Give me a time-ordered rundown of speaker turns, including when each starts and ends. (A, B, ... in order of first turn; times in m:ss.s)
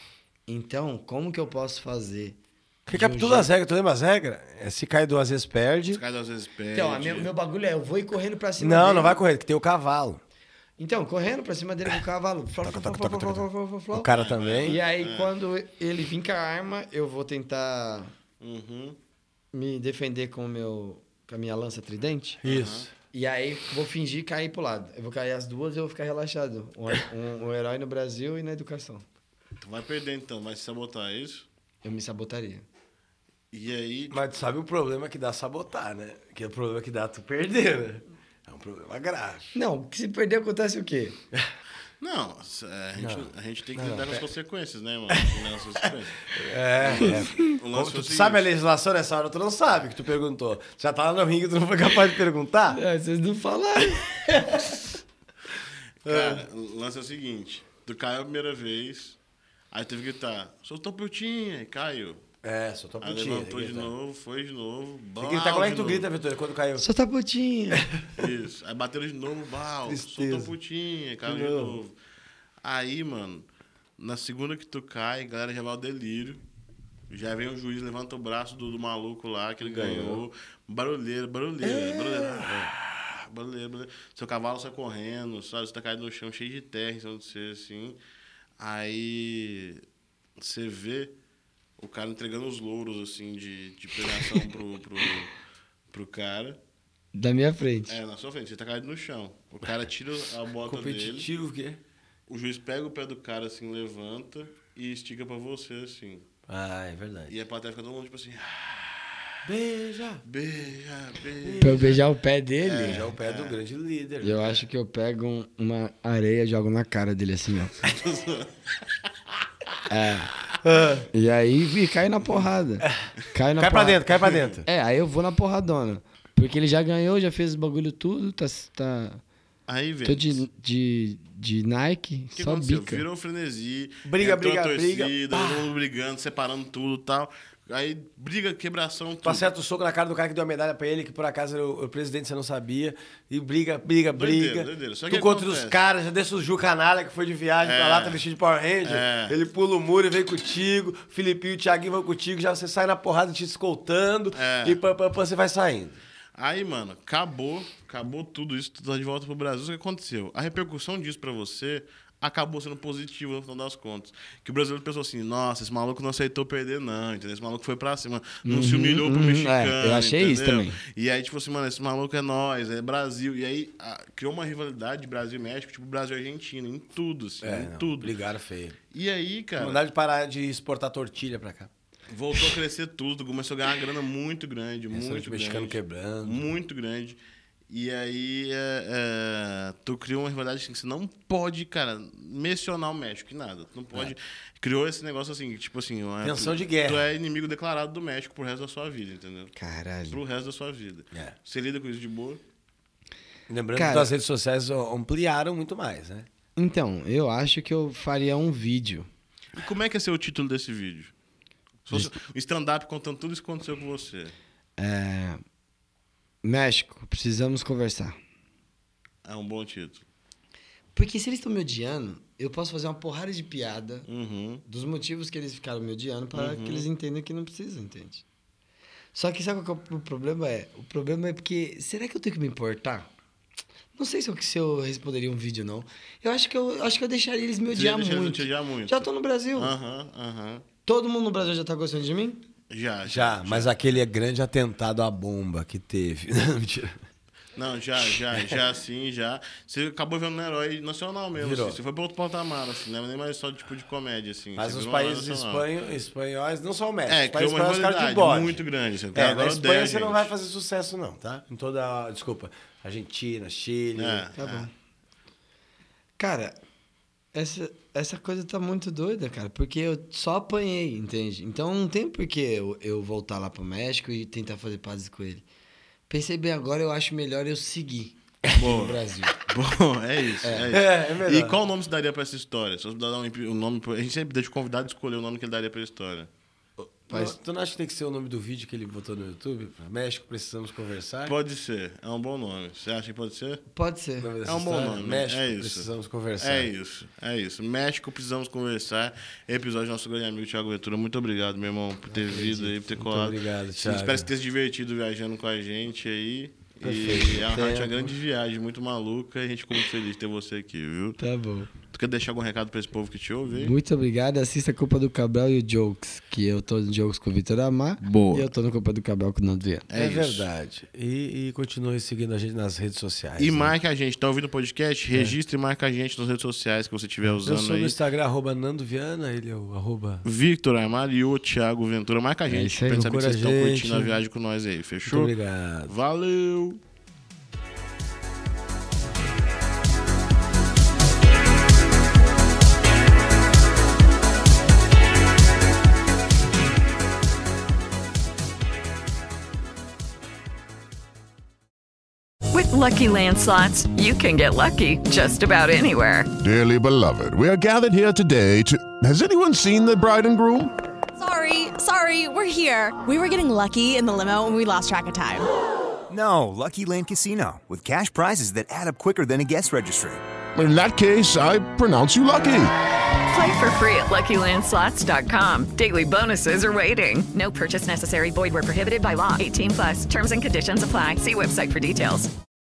0:00.5-0:03.5 A
0:02.9-0:06.0 B
0:05.9-0:07.3 C
0:06.7-0:09.2 A
0:08.6-0:10.2 B
0:10.8-0:14.1 A
0:12.6-0:14.8 B
0:14.1-0:15.3 C
0:14.6-0:18.1 A
0:18.4-0:19.0 C
0:19.5-0:22.4 A
0:22.4-0:22.9 B
0:22.4-0:22.9 C
0:23.1-0:29.0 A
0:29.6-0:31.5 C
0:31.8-0:32.6 A
0:33.5-0:34.2 C
0:34.1-0:39.5 B
0:39.6-0:41.2 A
0:42.0-0:48.5 C
0:43.0-0:44.2 B
0:45.1-0:52.8 B
0:47.2-0:47.5 A
0:52.7-0:54.4 A
0:54.5-0:55.0 C
0:56.0-0:56.4 B
0:56.0-0:59.2 C
0:59.7-1:02.2 C
1:02.4-1:03.9 B
1:03.0-1:06.1 C
1:05.2-1:06.9 B
1:06.8-1:07.9 A
1:08.2-1:11.9 C
1:09.9-1:10.5 B
1:11.2-1:11.8 B
1:12.6-1:13.5 C
1:14.0-1:16.4 C
1:17.1-1:28.0 C
1:19.6-1:20.2 B
1:21.6-1:22.7 B
1:28.6-1:29.8 C
1:30.4-1:31.2 C
1:31.8-1:35.3 C
1:35.9-1:36.6 C
1:37.1-1:38.0 A
1:37.9-1:41.3 C
1:40.7-1:41.8 B
1:42.3-1:46.3 C
1:46.5-1:47.3 B
1:47.3-1:49.4 C
1:49.4-1:50.2 B
1:50.2-1:52.0 C
1:51.4-1:52.0 B
1:51.6-1:53.1 A
1:52.6-1:53.6 C
1:52.8-1:54.6 B
1:54.2-1:57.8 A
1:57.8-1:58.8 C
1:59.9-2:00.3 A
2:00.6-2:01.1 B
2:01.1-2:09.2 A
2:02.8-2:03.1 B
2:03.6-2:04.6 B
2:04.2-2:04.6 C
2:09.7-2:10.4 C
2:10.0-2:13.0 A
2:12.4-2:19.5 C
2:14.0-2:15.7 B
2:19.2-2:36.0 B
2:24.1-2:25.8 C
2:27.6-2:28.2 C
2:28.8-2:29.4 C
2:34.3-2:34.8 C
2:36.4-2:58.1 C
2:48.4-2:50.8 A
2:57.4-2:58.8 B
2:58.9-2:59.8 C
2:59.6-3:01.7 B
3:02.1-3:19.5 C
3:04.9-3:06.5 B
3:16.2-3:17.1 B
3:19.6-3:20.2 A
3:20.1-3:22.4 C
3:23.5-3:26.3 B
3:23.8-3:24.1 A
3:26.6-3:29.1 A
3:29.6-3:31.1 C
3:31.9-3:34.4 C
3:34.8-3:35.4 A
3:36.4-3:38.2 A
3:39.2-3:40.1 C
3:40.9-3:44.1 A
3:44.1-3:44.6 C
3:44.7-3:48.2 A
3:46.3-3:46.9 C
3:49.1-3:53.1 A
3:54.0-3:59.8 A
3:57.7-4:00.6 C
4:00.9-4:02.4 A
4:02.7-4:04.0 C
4:03.1-4:07.0 B
4:07.6-4:15.7 C
4:11.4-4:11.8 B
4:14.6-4:18.6 B
4:17.1-4:20.3 C
4:19.1-4:24.3 B
4:24.0-4:24.7 C
4:24.3-4:24.7 A
4:26.2-4:26.6 A
4:27.3-4:35.4 A
4:36.1-4:39.4 A
4:38.6-4:46.3 C
4:40.4-4:40.7 A
4:40.7-4:41.6 B
4:46.8-4:47.4 A
4:47.1-4:51.3 B
4:51.3-4:53.6 C
4:53.7-4:54.3 A
4:54.2-4:56.7 B
4:54.5-5:11.2 C
5:02.1-5:02.7 A
5:02.7-5:04.3 B
5:06.8-5:07.8 B
5:07.5-5:08.0 A
5:11.2-5:11.7 A
5:11.8-5:13.8 C
5:13.5-5:19.9 A
5:18.0-5:18.5 C
5:19.9-5:20.5 C
5:19.9-5:23.7 B
5:23.4-5:28.0 C
5:27.4-5:30.2 B
5:30.2-5:35.3 C
5:32.5-5:33.2 A
5:33.0-5:34.1 B
5:35.0-5:35.9 B
5:35.9-5:36.8 C
5:52.5-5:56.3 D
5:56.4-6:00.7 E
6:01.2-6:05.5 F
6:06.1-6:10.2 G
6:10.6-6:12.7 E
6:13.3-6:22.3 D